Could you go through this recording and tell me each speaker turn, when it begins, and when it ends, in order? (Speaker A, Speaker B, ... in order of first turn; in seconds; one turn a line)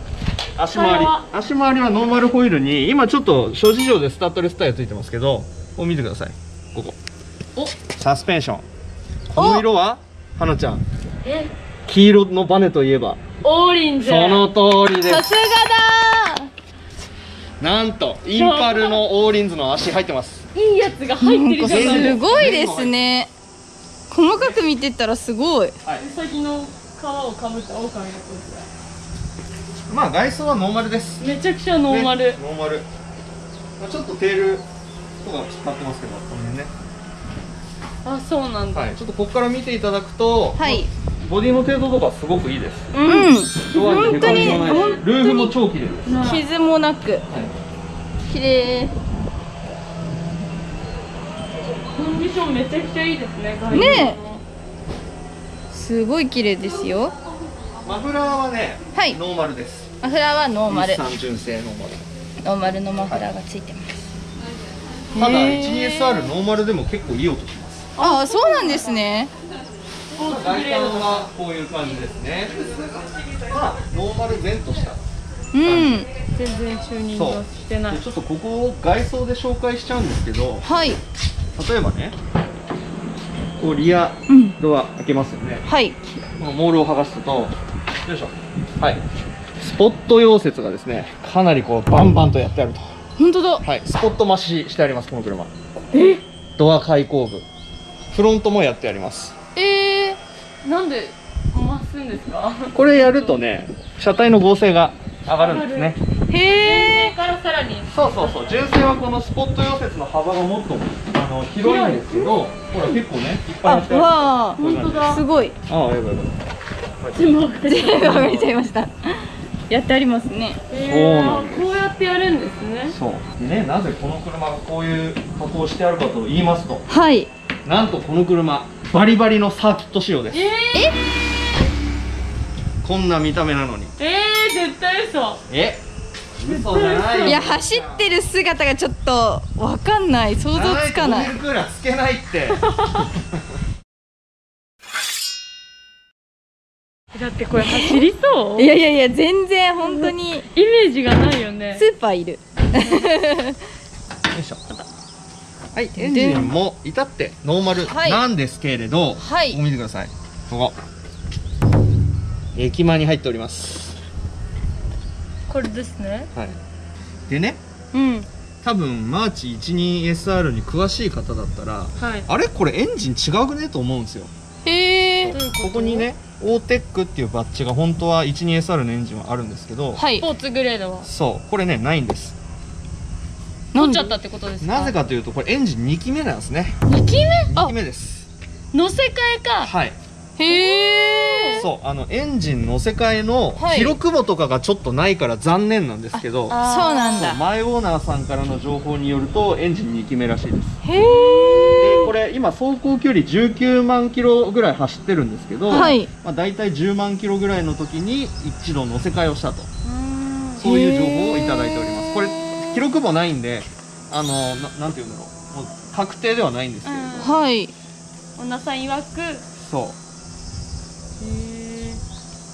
Speaker A: 0.6-7.0
Speaker B: 0.7-1.2
Speaker A: 8.0-8.7
Speaker A: 9.3-10.8
Speaker C: 9.3-9.7
Speaker B: 11.2-11.5
Speaker A: 11.9-13.2
Speaker B: 13.4-14.5
Speaker A: 14.0-15.3
Speaker C: 15.0-16.4
Speaker A: 17.6-20.4
Speaker B: 18.3-19.0
Speaker B: 20.5-22.3
Speaker C: 21.2-23.3
Speaker A: 21.6-23.0
Speaker C: 24.1-25.8
Speaker A: 24.3-24.6
Speaker B: 26.0-28.7
Speaker A: 29.9-31.2
Speaker B: 31.2-32.4
Speaker A: 31.9-32.9
Speaker A: 33.8-34.6
Speaker A: 35.2-36.7
Speaker B: 38.0-38.9
Speaker A: 38.7-43.0
Speaker C: 40.6-40.9
Speaker C: 43.0-45.5
Speaker B: 43.0-45.0
Speaker A: 43.6-46.3
Speaker B: 46.0-46.4
Speaker C: 46.1-47.2
Speaker C: 48.3-48.9
Speaker B: 51.9-54.4
Speaker C: 53.7-54.2
Speaker C: 55.7-57.1
Speaker A: 57.8-59.9
Speaker C: 60.0-61.0
Speaker A: 60.7-62.0
Speaker C: 62.4-64.0
Speaker C: 65.1-66.3
Speaker A: 65.1-67.9
Speaker B: 68.0-69.1
Speaker C: 68.0-69.3
Speaker B: 70.1-71.3
Speaker A: 70.2-75.0
Speaker C: 75.5-76.1
Speaker A: 75.6-76.1
Speaker B: 76.3-78.0
Speaker A: 77.1-80.7
Speaker C: 80.6-81.0
Speaker A: 81.5-82.2
Speaker A: 83.6-85.7
Speaker C: 84.3-84.6
Speaker C: 85.7-86.0
Speaker A: 86.4-89.0
Speaker A: 89.6-93.0
Speaker C: 93.2-93.6
Speaker A: 93.6-95.5
Speaker B: 95.9-96.2
Speaker A: 96.6-97.5
Speaker A: 98.1-99.3
Speaker C: 99.5-100.2
Speaker B: 100.6-103.4
Speaker A: 102.7-106.0
Speaker B: 105.2-108.7
Speaker C: 106.3-107.1
Speaker A: 107.9-116.3
Speaker B: 111.6-112.3
Speaker C: 113.6-115.5
Speaker B: 114.6-115.2
Speaker A: 117.0-117.2
Speaker B: 117.1-118.5
Speaker C: 117.7-120.6
Speaker B: 120.7-123.0
Speaker A: 120.7-121.8
Speaker A: 122.9-126.8
Speaker C: 126.9-127.3
Speaker A: 127.6-130.5
Speaker B: 130.3-131.0
Speaker A: 132.8-133.9
Speaker B: 134.0-135.4
Speaker A: 135.5-135.8
Speaker A: 136.4-138.3
Speaker B: 136.4-137.4
Speaker C: 137.2-141.3
Speaker A: 140.5-142.6
Speaker B: 142.6-143.1
Speaker B: 147.1-148.7
Speaker C: 147.6-148.1
Speaker C: 148.6-150.5
Speaker B: 149.8-151.8
Speaker C: 151.8-153.6
Speaker B: 152.8-153.1
Speaker A: 154.3-154.6
Speaker A: 155.7-160.8
Speaker C: 155.9-156.5
Speaker C: 157.8-158.2
Speaker C: 159.2-159.6
Speaker A: 162.5-164.0
Speaker B: 165.5-166.3
Speaker A: 167.3-167.6
Speaker B: 167.9-168.2
Speaker C: 167.9-168.2
Speaker A: 168.6-174.3
Speaker B: 172.0-172.3
Speaker C: 174.6-175.4
Speaker A: 175.2-180.0
Speaker B: 175.3-176.1
Speaker C: 179.9-180.3
Speaker B: 180.2-181.1
Speaker A: 181.0-182.3
Speaker C: 183.7-184.1
Speaker B: 183.7-184.9
Speaker A: 184.6-186.7
Speaker B: 186.9-187.5
Speaker A: 187.5-188.3
Speaker B: 188.7-189.7
Speaker A: 189.6-190.0
Speaker C: 190.4-191.7
Speaker B: 190.4-191.6
Speaker A: 191.6-196.6
Speaker C: 193.6-194.0
Speaker B: 196.5-197.3
Speaker C: 196.6-197.4
Speaker A: 197.2-200.8
Speaker C: 200.8-202.1
Speaker B: 200.9-202.1
Speaker A: 201.8-209.7
Speaker B: 205.7-206.0
Speaker C: 205.7-206.1
Speaker B: 209.8-210.7
Speaker A: 210.6-217.3
Speaker C: 210.6-211.7
Speaker B: 216.8-217.4
Speaker C: 217.2-217.7
Speaker B: 218.4-219.4
Speaker A: 219.6-220.0
Speaker B: 221.2-222.0